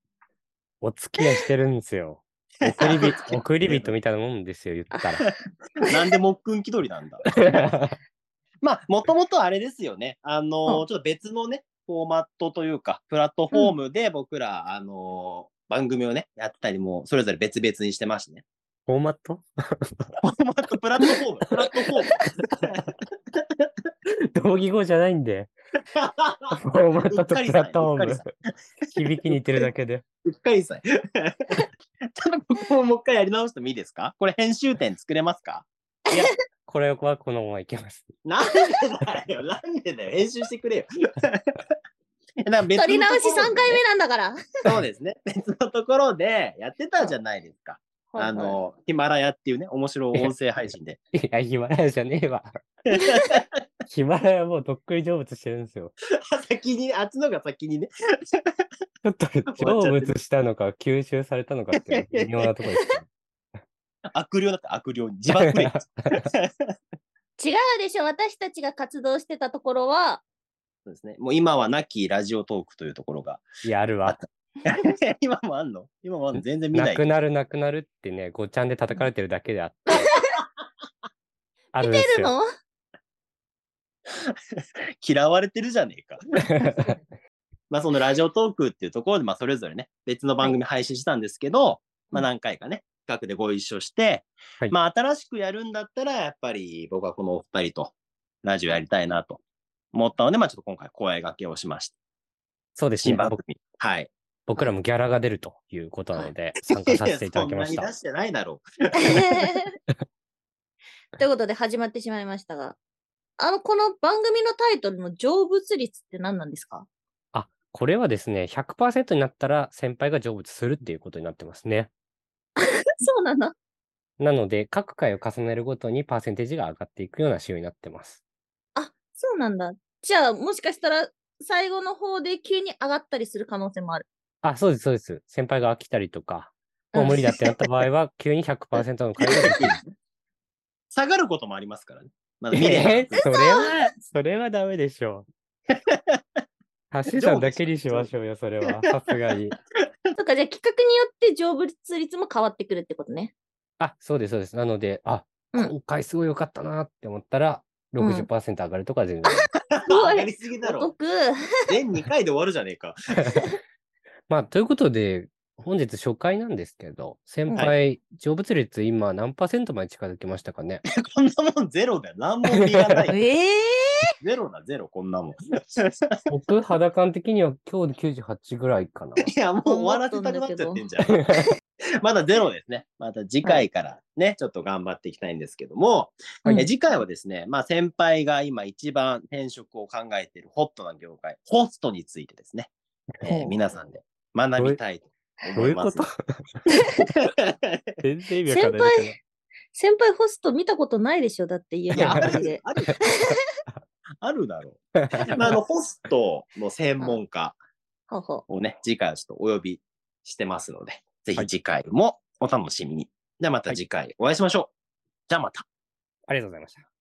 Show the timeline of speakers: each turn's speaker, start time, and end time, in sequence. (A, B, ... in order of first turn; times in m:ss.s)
0:00.8-0:05.3 A
0:02.7-0:03.9 B
0:05.9-0:07.3 B
0:07.5-0:07.9 A
0:08.6-0:18.4 B
0:18.9-0:19.5 A
0:20.2-0:23.0 B
0:24.3-0:25.5 A
0:25.9-0:26.5 B
0:26.5-0:28.3 A
0:27.1-0:28.3 B
0:28.9-0:29.6 B
0:29.0-0:30.0 A
0:30.2-0:35.7 B
0:36.1-0:38.1 A
0:38.2-0:41.5 B
0:42.4-0:43.8 B
0:42.7-0:44.4 C
0:44.6-0:51.0 B
0:48.1-0:48.6 C
0:51.1-0:52.5 A
0:52.9-0:53.5 B
0:53.9-0:55.9 A
0:56.3-0:58.6 B
0:59.0-1:03.0 A
0:59.5-1:00.1 B
1:01.7-1:02.4 B
1:04.1-1:06.7 B
1:05.3-1:06.2 A
1:07.4-1:10.2 C
1:10.8-1:13.5 B
1:13.6-1:14.2 A
1:14.0-1:17.1 B
1:16.7-1:20.1 A
1:21.7-1:22.3 A
1:21.8-1:22.4 C
1:24.2-1:26.2 B
1:26.6-1:26.9 A
1:27.7-1:39.4 B
1:39.9-1:41.9 B
1:42.8-1:43.4 A
1:43.0-1:44.1 B
1:44.5-1:47.9 A
1:46.7-1:49.3 B
1:49.0-1:49.6 C
1:51.2-1:52.8 C
1:53.4-1:56.8 C
1:57.3-2:01.9 A
2:02.6-2:03.5 C
2:04.2-2:08.2 A
2:08.7-2:14.0 C
2:14.4-2:19.8 A
2:16.9-2:17.2 C
2:17.1-2:17.4 B
2:19.2-2:19.9 B
2:20.9-2:23.3 B
2:22.5-2:25.3 A
2:23.2-2:23.6 C
2:25.9-2:26.2 B
2:26.9-2:29.5 A
2:27.1-2:28.1 B
2:30.1-2:33.3 C
2:33.8-2:39.4 A
2:38.0-2:38.3 C
2:39.3-2:41.3 C
2:39.8-2:40.9 B
2:41.7-2:43.0 B
2:44.3-2:50.8 A
2:51.0-2:53.1 B
2:53.1-2:54.0 C
2:54.2-2:56.2 B
2:56.3-2:59.3 A
2:59.2-3:01.2 B
2:59.6-3:00.8 C
3:01.0-3:01.5 A
3:02.0-3:12.7 B
3:13.2-3:16.1 B
3:13.3-3:13.6 C
3:15.6-3:16.5 A
3:17.0-3:17.8 B
3:18.0-3:19.2 A
3:18.5-3:19.2 C
3:19.7-3:22.6 C
3:22.0-3:22.3 A
3:22.0-3:23.1 B
3:24.2-3:27.6 B
3:25.0-3:25.4 A
3:28.1-3:28.4 C
3:28.5-3:34.7 B
3:35.3-3:35.6 B
3:36.3-3:36.8 A